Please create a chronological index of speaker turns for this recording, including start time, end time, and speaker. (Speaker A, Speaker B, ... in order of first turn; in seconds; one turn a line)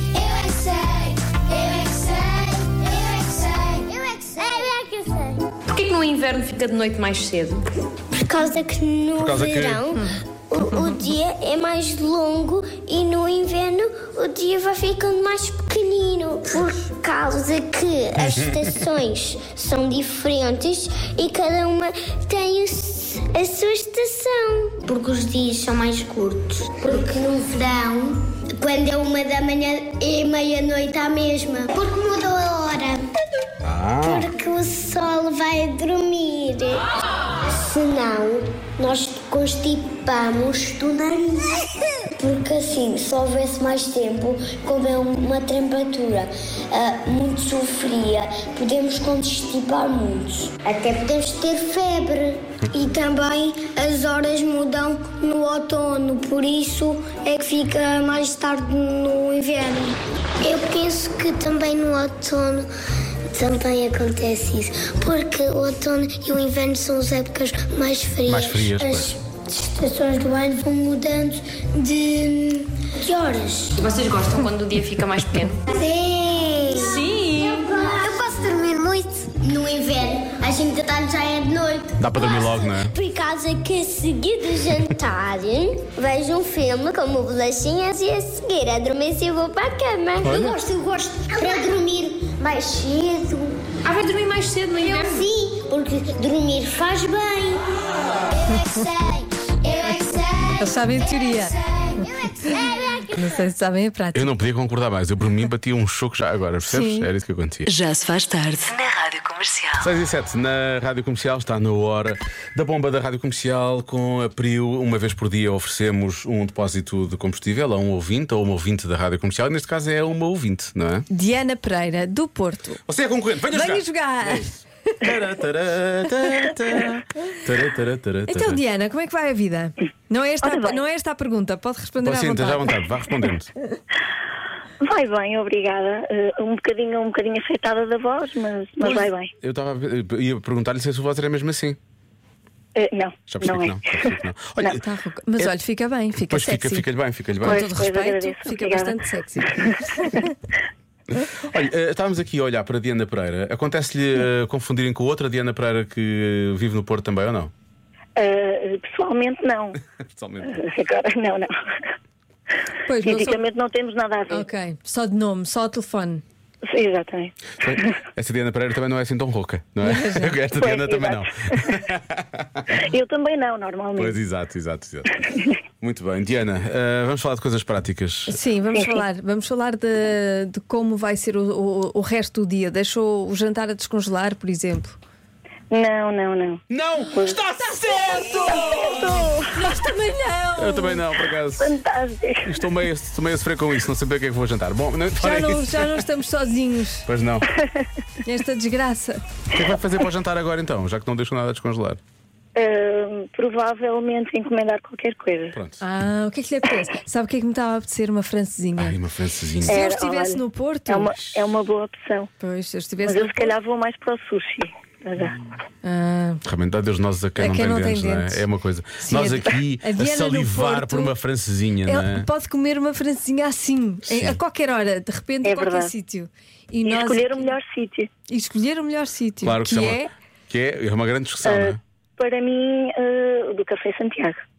Speaker A: 0.1-5.5
Speaker B: 5.7-7.6
Speaker A: 8.1-33.1
Speaker C: 9.2-9.8
Speaker C: 18.2-18.6
Speaker C: 33.6-34.3
Speaker A: 34.0-36.9
Speaker A: 37.5-62.7
Speaker A: 63.3-73.8
Speaker C: 68.2-69.2
Speaker B: 73.8-75.6
Speaker A: 75.7-93.7
Speaker B: 77.0-77.6
Speaker C: 82.0-82.9
Speaker C: 90.2-90.6
Speaker B: 93.9-95.2
Speaker A: 94.8-97.9
Speaker A: 98.5-103.3
Speaker D: 100.6-101.6
Speaker D: 103.1-104.3
Speaker C: 104.1-107.7
Speaker D: 106.7-107.1
Speaker E: 107.7-109.9
Speaker C: 109.8-121.1
Speaker D: 121.1-122.8
Speaker C: 122.9-128.6
Speaker D: 123.5-124.6
Speaker D: 128.3-132.8
Speaker F: 130.4-130.8
Speaker C: 132.0-133.5
Speaker F: 134.8-139.3
Speaker C: 138.8-141.8
Speaker F: 142.8-144.1
Speaker C: 143.3-144.8
Speaker D: 144.7-146.9
Speaker C: 146.2-147.7
Speaker D: 147.4-150.3
Speaker F: 147.4-149.8
Speaker C: 151.2-157.5
Speaker F: 158.2-159.8
Speaker C: 160.1-160.6
Speaker F: 160.5-161.6
Speaker D: 162.9-163.4
Speaker F: 163.0-164.5
Speaker D: 164.3-166.2
Speaker F: 166.7-167.9
Speaker C: 167.6-172.7
Speaker D: 169.8-170.4
Speaker F: 170.6-171.6
Speaker F: 172.7-174.2
Speaker C: 174.0-178.4
Speaker D: 178.3-185.0
Speaker F: 178.7-179.0
Speaker F: 185.7-186.6
Speaker C: 186.7-189.3
Speaker F: 187.1-187.4
Speaker F: 188.5-189.5
Speaker D: 189.5-191.0
Speaker C: 190.6-191.8
Speaker F: 191.6-192.5
Speaker C: 192.4-195.9
Speaker D: 195.2-197.1
Speaker C: 197.1-197.5
Speaker D: 198.2-199.2
Speaker C: 199.5-202.0
Speaker F: 202.6-205.6
Speaker C: 205.5-205.8
Speaker D: 205.8-209.0
Speaker C: 208.8-209.8
Speaker D: 209.7-211.1
Speaker F: 209.7-212.3
Speaker D: 212.4-213.5
Speaker F: 213.0-215.4
Speaker D: 215.8-216.4
Speaker C: 216.4-222.3
Speaker D: 217.4-218.4
Speaker D: 219.0-221.1
Speaker D: 221.9-227.5
Speaker C: 224.1-224.4
Speaker F: 225.4-225.9
Speaker F: 226.8-228.1
Speaker D: 228.3-230.1
Speaker C: 229.4-231.8
Speaker F: 231.5-234.4